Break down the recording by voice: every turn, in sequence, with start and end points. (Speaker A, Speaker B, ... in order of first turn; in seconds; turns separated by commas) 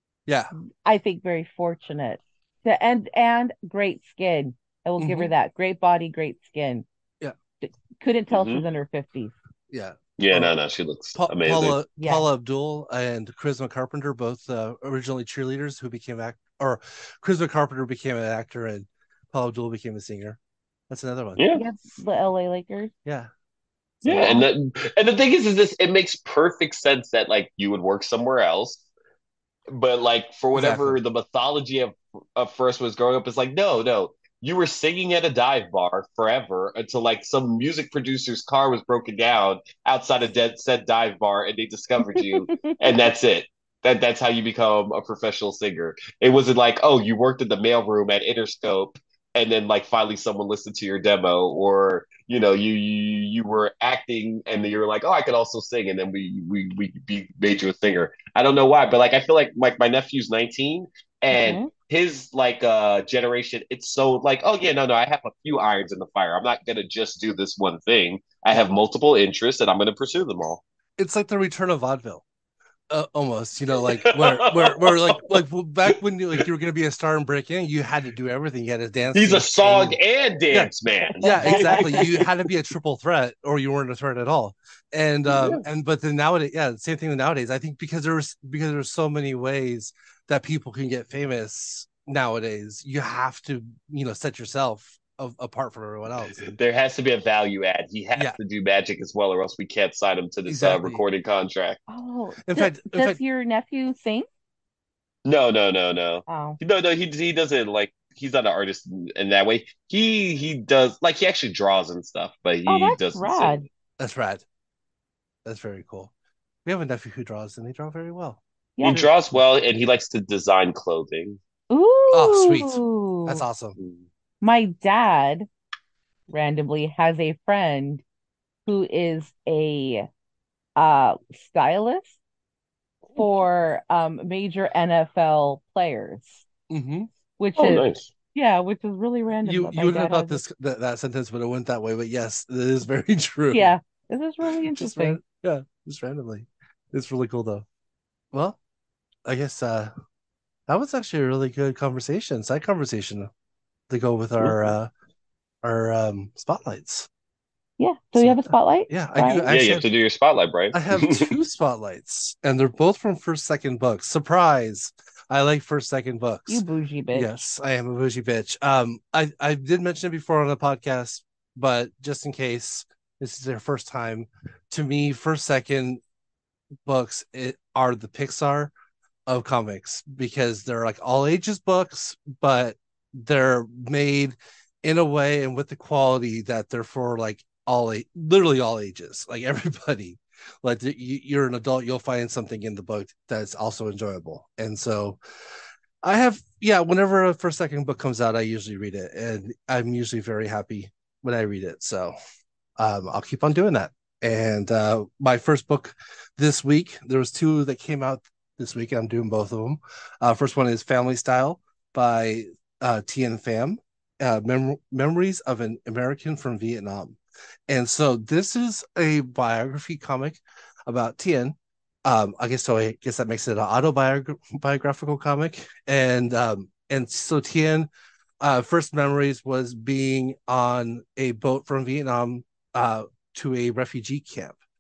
Speaker A: 0.3-0.5, Speaker B: 0.8-6.9, Speaker A: 5.0-5.3, Speaker B: 7.6-9.3, Speaker C: 8.3-8.6, Speaker A: 9.7-10.5, Speaker C: 10.2-11.8, Speaker A: 11.2-20.4, Speaker B: 12.0-12.3, Speaker A: 20.9-21.4, Speaker C: 21.4-21.6, Speaker B: 21.5-22.9, Speaker A: 23.1-23.3, Speaker A: 24.0-24.4, Speaker C: 24.1-28.8, Speaker B: 24.1-24.4, Speaker C: 29.7-70.6, Speaker A: 30.6-31.0, Speaker B: 42.2-43.0, Speaker B: 61.3-61.7, Speaker A: 71.0-72.2, Speaker A: 72.9-80.0, Speaker C: 73.8-75.2, Speaker C: 79.1-82.3, Speaker A: 80.5-96.5, Speaker B: 81.2-82.1, Speaker C: 85.3-85.6, Speaker C: 96.4-101.8, Speaker A: 100.5-101.0, Speaker B: 101.9-104.3, Speaker A: 102.4-103.2, Speaker C: 105.2-113.6, Speaker B: 106.3-106.6, Speaker B: 112.7-113.7, Speaker A: 114.0-114.4, Speaker A: 115.5-116.1, Speaker A: 116.7-119.2, Speaker B: 118.8-119.0, Speaker C: 118.8-121.4, Speaker B: 121.7-123.4, Speaker A: 122.1-123.8, Speaker C: 123.8-124.0, Speaker B: 124.4-125.5, Speaker B: 126.3-128.0, Speaker B: 128.7-130.1, Speaker B: 130.8-132.2, Speaker B: 133.2-136.5, Speaker A: 136.7-137.1, Speaker B: 137.4-140.4, Speaker C: 137.6-138.1, Speaker A: 139.4-143.7, Speaker B: 143.5-145.2, Speaker A: 144.8-147.7, Speaker A: 148.3-148.6, Speaker A: 149.3-149.9, Speaker A: 150.7-153.3, Speaker A: 153.9-154.9, Speaker A: 155.6-157.1, Speaker B: 157.8-159.5, Speaker A: 158.2-159.8, Speaker C: 159.5-161.3, Speaker A: 160.7-176.0, Speaker B: 166.5-167.3, Speaker A: 176.8-178.7, Speaker A: 179.3-195.2, Speaker A: 196.0-202.1, Speaker A: 202.8-227.9, Speaker A: 228.4-234.6